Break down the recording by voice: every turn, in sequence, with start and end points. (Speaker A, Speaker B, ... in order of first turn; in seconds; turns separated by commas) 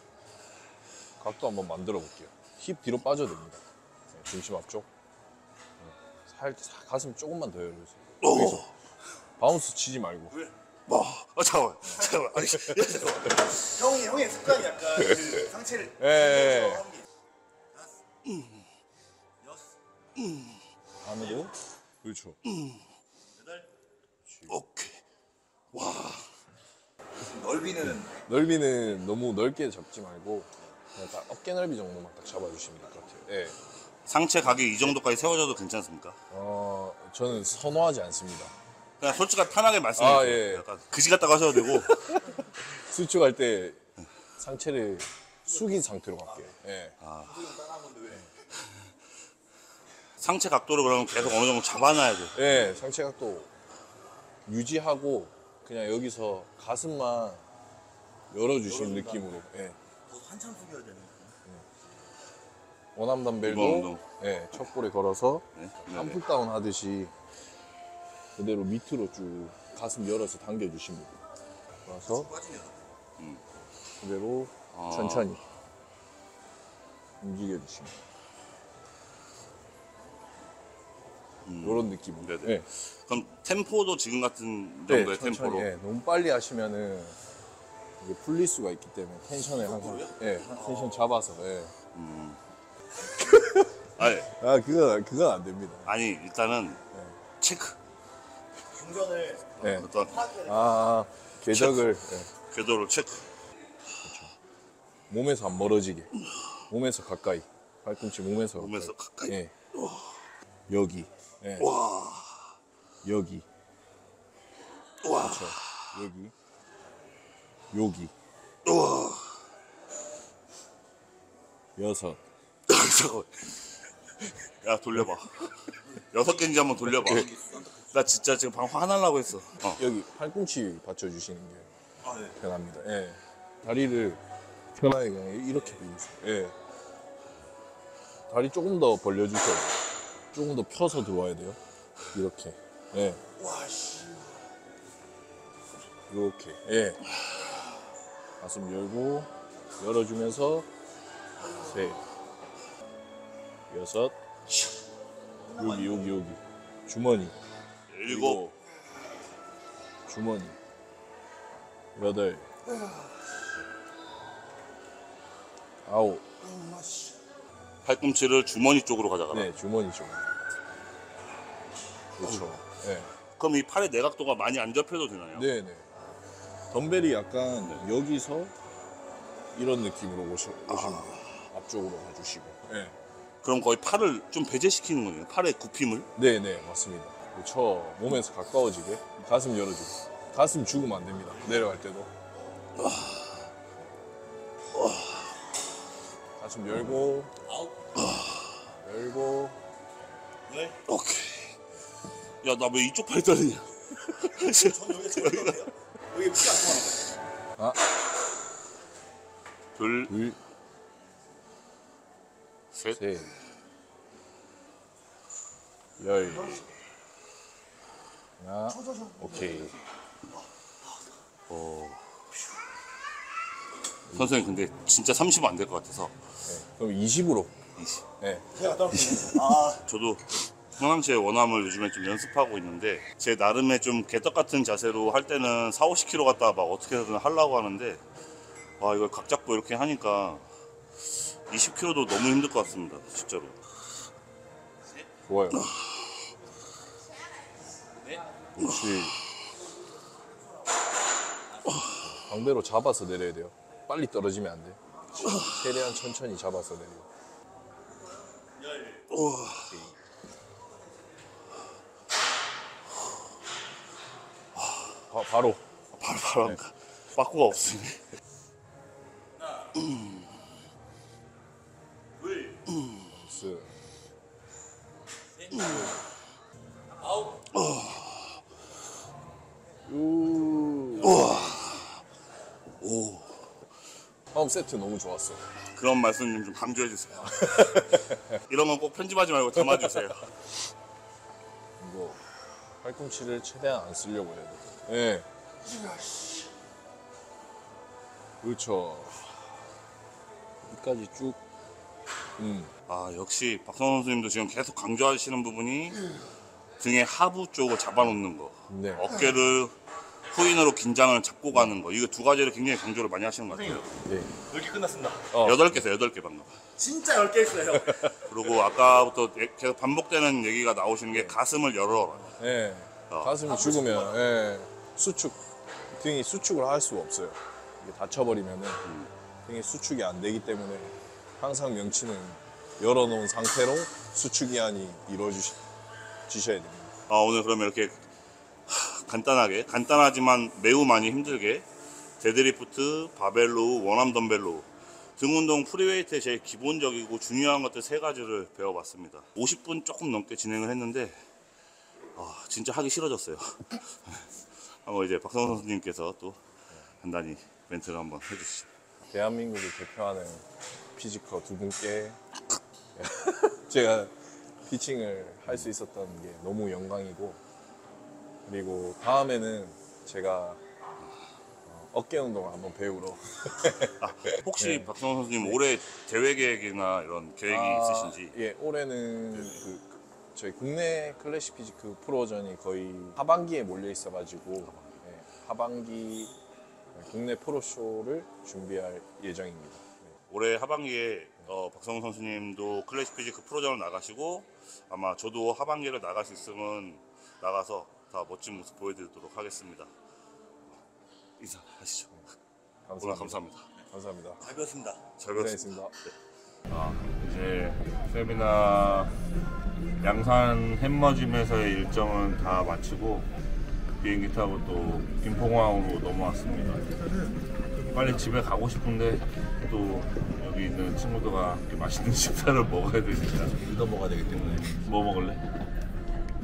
Speaker A: 1.2-4.9, Speaker A: 5.8-8.6, Speaker B: 8.2-8.7, Speaker A: 9.4-10.5, Speaker B: 10.9-14.0, Speaker C: 13.7-15.9, Speaker A: 15.2-17.0, Speaker B: 18.3-18.6, Speaker A: 21.0-22.4, Speaker A: 24.3-24.6, Speaker B: 24.5-25.0, Speaker B: 25.7-26.3, Speaker C: 27.3-27.9, Speaker A: 27.6-33.6, Speaker B: 34.1-36.2, Speaker A: 36.3-38.5, Speaker B: 39.0-42.2, Speaker A: 40.0-40.6, Speaker A: 41.9-43.8, Speaker A: 44.4-47.0, Speaker B: 47.0-47.8, Speaker C: 47.7-48.1, Speaker A: 48.0-48.3, Speaker B: 50.2-52.7, Speaker A: 52.3-53.5, Speaker A: 54.5-57.4, Speaker A: 58.3-59.8, Speaker C: 58.7-59.2, Speaker C: 60.1-61.3, Speaker A: 63.0-67.1, Speaker B: 63.4-64.0, Speaker B: 65.5-66.2, Speaker A: 68.4-71.1, Speaker A: 71.9-72.4, Speaker A: 74.0-75.4, Speaker B: 74.7-75.3, Speaker A: 77.2-78.0, Speaker B: 81.5-85.7, Speaker A: 81.6-82.7, Speaker A: 84.9-87.2, Speaker A: 88.0-91.8, Speaker C: 89.8-90.1, Speaker B: 91.9-92.4, Speaker A: 93.2-93.7, Speaker B: 94.0-94.3, Speaker A: 94.2-95.9, Speaker B: 95.8-96.8, Speaker B: 97.4-97.8, Speaker C: 98.7-99.5, Speaker B: 99.6-100.3, Speaker A: 99.6-102.3, Speaker B: 101.5-101.9, Speaker B: 102.4-103.2, Speaker A: 104.0-104.3, Speaker A: 105.1-106.1, Speaker A: 106.7-109.5, Speaker B: 108.5-109.3, Speaker A: 110.7-111.7, Speaker B: 111.6-112.5, Speaker A: 113.0-113.5, Speaker B: 115.0-115.9, Speaker A: 115.2-116.3, Speaker A: 117.7-118.1, Speaker B: 118.7-119.4, Speaker A: 121.8-122.2, Speaker B: 122.7-123.6, Speaker B: 124.6-129.8, Speaker A: 129.8-134.2, Speaker A: 134.8-136.5, Speaker A: 138.3-141.6, Speaker A: 142.1-143.2, Speaker A: 146.1-147.0, Speaker A: 148.4-150.7, Speaker A: 151.5-152.0, Speaker A: 153.7-154.2, Speaker C: 155.5-155.9, Speaker A: 155.5-157.4, Speaker B: 157.9-158.4, Speaker A: 158.1-158.6, Speaker A: 160.1-160.6, Speaker A: 162.0-162.5, Speaker A: 165.9-166.5, Speaker B: 167.8-169.5, Speaker A: 169.3-170.3, Speaker A: 172.2-173.1, Speaker B: 173.3-175.5, Speaker A: 175.3-175.9, Speaker A: 176.7-178.5, Speaker A: 179.5-182.9, Speaker B: 180.7-181.4, Speaker B: 183.4-186.1, Speaker A: 186.2-192.1, Speaker A: 196.4-197.3, Speaker A: 198.8-199.6, Speaker C: 200.5-200.7, Speaker B: 200.9-201.6, Speaker B: 202.4-205.7, Speaker C: 204.7-207.1, Speaker B: 209.8-210.2, Speaker A: 210.1-210.4, Speaker B: 212.7-213.0, Speaker A: 212.9-213.3, Speaker A: 216.0-216.6, Speaker A: 218.4-219.8, Speaker B: 221.5-222.3, Speaker B: 224.1-226.2, Speaker A: 226.5-227.5, Speaker B: 227.8-228.0, Speaker A: 228.2-228.9, Speaker C: 228.7-229.7, Speaker B: 229.4-238.0, Speaker B: 238.8-240.5, Speaker B: 241.1-243.6, Speaker A: 245.3-245.7, Speaker A: 248.6-249.2, Speaker A: 252.0-257.1, Speaker B: 259.1-259.8, Speaker A: 259.6-259.9, Speaker A: 265.1-265.6, Speaker B: 265.9-268.1, Speaker B: 269.7-270.2, Speaker B: 272.7-273.0, Speaker A: 273.1-273.7, Speaker A: 275.6-276.0, Speaker B: 277.5-278.4, Speaker A: 279.9-281.4, Speaker B: 281.0-282.0, Speaker B: 282.8-283.5, Speaker A: 284.3-285.5, Speaker B: 285.7-290.3, Speaker A: 287.2-288.2, Speaker A: 291.8-292.2, Speaker A: 292.8-295.3, Speaker A: 298.4-299.3, Speaker A: 300.7-301.4, Speaker A: 302.4-302.7, Speaker B: 302.9-306.0, Speaker B: 306.8-309.8, Speaker A: 308.7-309.1, Speaker B: 310.3-313.9, Speaker A: 314.0-314.4, Speaker C: 314.5-315.2, Speaker A: 315.3-315.8, Speaker B: 315.3-316.6, Speaker C: 316.8-317.8, Speaker B: 318.2-322.4, Speaker A: 322.4-325.4, Speaker B: 323.1-323.5, Speaker A: 325.9-328.9, Speaker A: 329.5-335.6, Speaker A: 336.3-336.9, Speaker B: 337.1-338.0, Speaker B: 338.7-341.6, Speaker B: 342.2-351.2, Speaker B: 352.1-356.4, Speaker B: 357.0-358.7, Speaker A: 359.1-362.2, Speaker A: 363.0-367.4, Speaker A: 368.5-370.6, Speaker A: 371.7-375.6, Speaker B: 374.0-378.4, Speaker A: 377.5-386.3, Speaker B: 384.6-385.0, Speaker A: 386.9-390.1, Speaker B: 390.3-399.9, Speaker B: 401.4-402.2, Speaker A: 402.9-404.6, Speaker B: 403.0-403.7, Speaker B: 405.1-406.1, Speaker A: 405.3-405.9, Speaker B: 406.7-409.2, Speaker B: 410.0-413.3, Speaker B: 414.0-416.9, Speaker B: 417.9-423.6, Speaker C: 423.6-424.8, Speaker B: 424.8-425.4